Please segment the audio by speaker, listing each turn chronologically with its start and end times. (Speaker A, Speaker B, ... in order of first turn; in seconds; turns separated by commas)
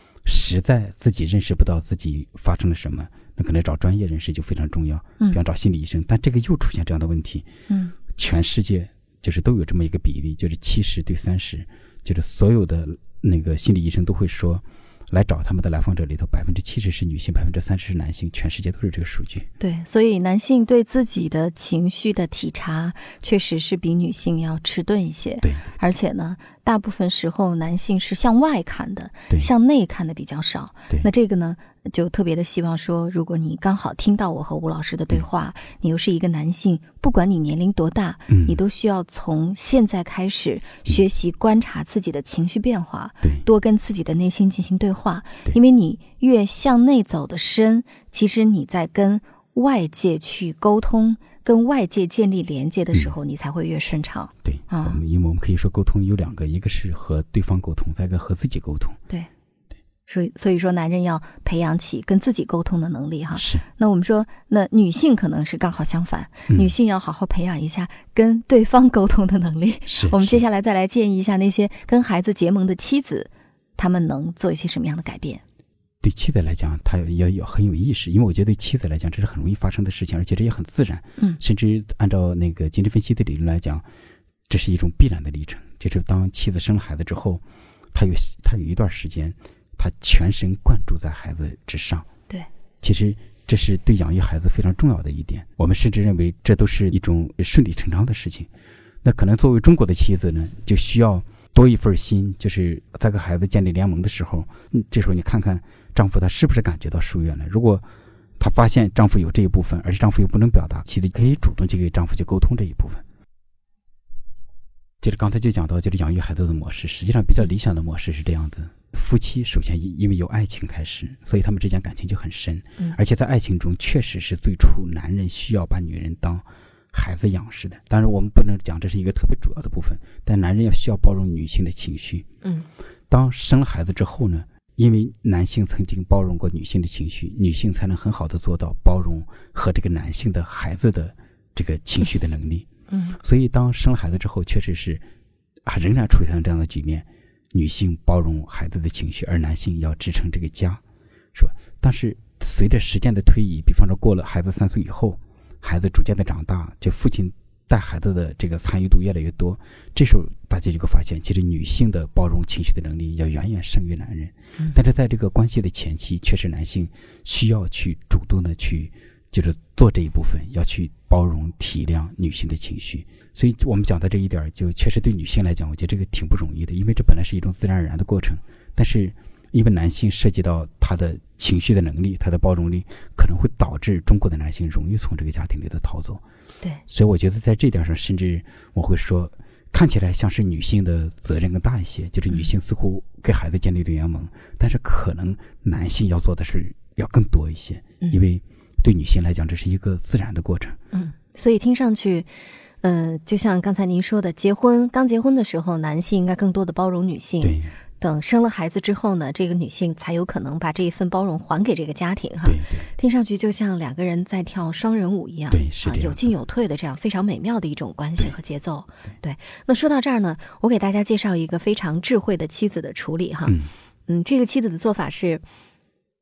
Speaker A: 0.2-7.5, Speaker B: 7.7-7.9, Speaker A: 8.1-19.5, Speaker B: 19.6-55.0, Speaker A: 25.4-25.7, Speaker A: 38.3-38.6, Speaker A: 54.5-59.0, Speaker B: 60.1-75.4, Speaker A: 63.3-63.6, Speaker A: 69.9-70.4, Speaker A: 76.0-83.8, Speaker A: 84.5-87.4, Speaker A: 87.9-92.1, Speaker A: 92.8-98.5, Speaker A: 99.0-107.9, Speaker A: 108.4-113.0, Speaker A: 115.0-132.3, Speaker B: 132.4-132.7, Speaker A: 133.1-142.7, Speaker B: 142.9-143.2, Speaker A: 143.2-145.0, Speaker A: 145.7-150.8, Speaker A: 151.3-186.2, Speaker A: 186.9-200.8, Speaker B: 200.9-202.3, Speaker B: 202.8-223.6, Speaker A: 207.4-207.7, Speaker A: 212.4-212.9, Speaker A: 215.5-216.3, Speaker A: 223.5-223.7, Speaker B: 224.1-225.4